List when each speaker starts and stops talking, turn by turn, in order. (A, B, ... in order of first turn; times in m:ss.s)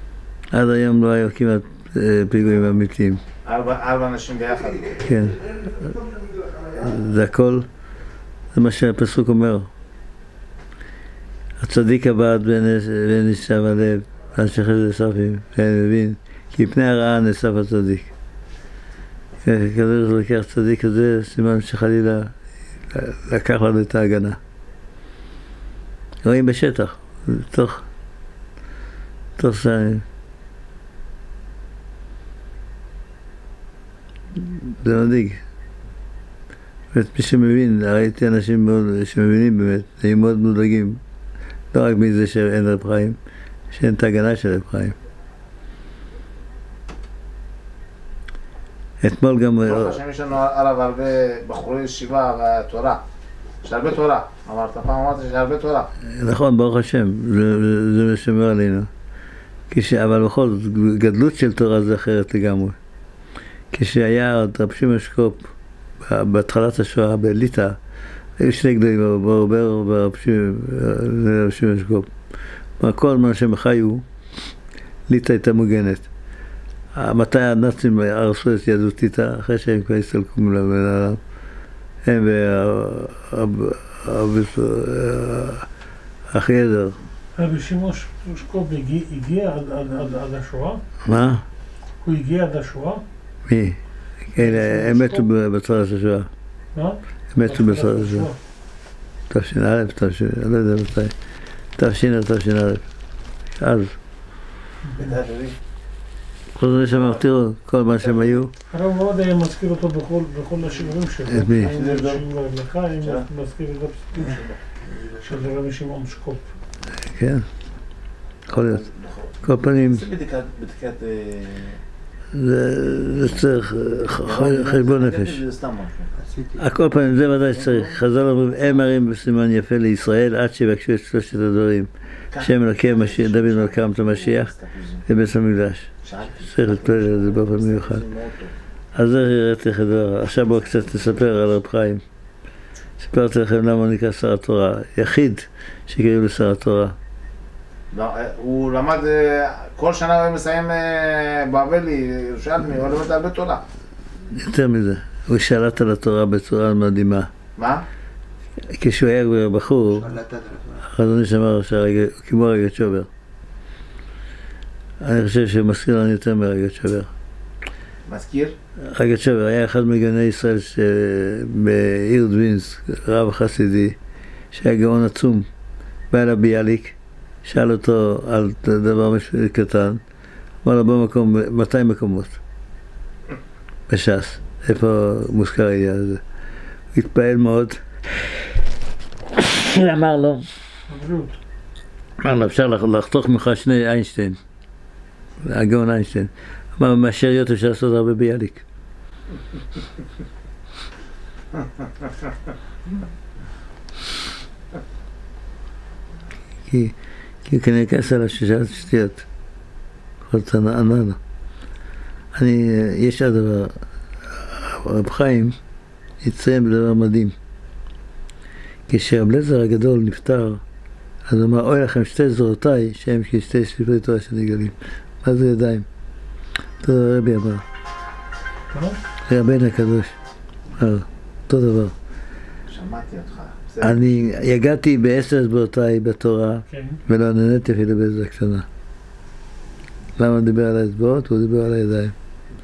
0:00.5-0:03.2 A
0:03.4-0:05.0 B
0:05.0-0:05.9 A
0:06.7-0:07.6 A
0:08.5-0:09.7 A
0:11.6-0:18.1 A
0:19.4-0:22.4 A
0:22.9-0:24.4 A
0:26.2-0:27.8 A
0:29.4-0:30.0 A
0:34.4-0:35.4 A
0:36.9-0:41.0 A
0:41.7-0:43.2 A
0:43.7-0:45.0 A
0:49.0-0:50.0 A
0:49.6-0:53.0 B
0:53.6-0:55.9 B
0:56.1-0:58.9 A
0:59.7-1:02.8 A
1:03.7-1:05.5 A
1:06.0-1:07.8 A
1:08.4-1:12.1 A
1:12.8-1:14.0 A
1:15.1-1:16.1 A
1:16.9-1:21.2 A
1:22.0-1:25.7 A
1:26.3-1:27.0 A
1:27.4-1:30.8 C
1:31.0-1:31.4 A
1:32.0-1:33.0 C
1:33.4-1:33.8 A
1:34.3-1:36.3 A
1:34.4-1:35.3 C
1:36.7-1:38.4 C
1:37.3-1:38.3 A
1:39.3-1:41.1 A
1:41.8-1:42.8 A
1:43.6-1:44.0 A
1:45.0-1:45.6 B
1:46.5-1:48.5 A
1:48.1-1:48.4 B
1:48.7-1:56.5 C
1:51.3-1:51.7 A
1:51.6-1:52.2 B
1:57.0-1:57.4 A
1:58.5-1:58.8 A
1:58.6-1:59.3 B
1:59.4-2:00.1 A
1:59.9-2:01.8 B
2:02.3-2:05.4 A
2:04.1-2:06.3 B
2:06.5-2:14.5 A
2:07.5-2:07.9 B
2:12.3-2:15.0 B
2:15.0-2:18.0 A
2:16.0-2:18.5 B
2:18.9-2:22.0 A
2:23.0-2:26.9 A
2:27.9-2:33.6 B
2:34.3-2:37.3 A
2:37.6-2:37.8 B
2:38.7-2:43.1 A
2:45.0-2:47.1 A
2:48.1-2:48.5 B
2:48.8-2:54.0 A
2:54.5-2:55.5 A
2:56.1-3:00.0 A
3:00.6-3:02.4 A
3:03.9-3:06.2 A
3:06.9-3:08.3 A
3:09.3-3:10.5 A
3:10.9-3:11.4 C
3:12.2-3:14.4 A
3:15.4-3:18.6 A
3:26.7-3:29.2 A
3:30.2-3:31.2 A
3:32.3-3:35.6 A
3:36.2-3:37.3 A
3:38.9-3:40.6 A
3:41.3-3:45.9 A
3:46.8-3:47.6 A
3:48.7-3:49.0 C
3:49.2-3:50.1 A
3:50.8-3:51.9 A
3:52.7-3:54.0 B
3:53.8-3:58.6 A
3:56.7-3:57.0 C
4:00.2-4:02.1 A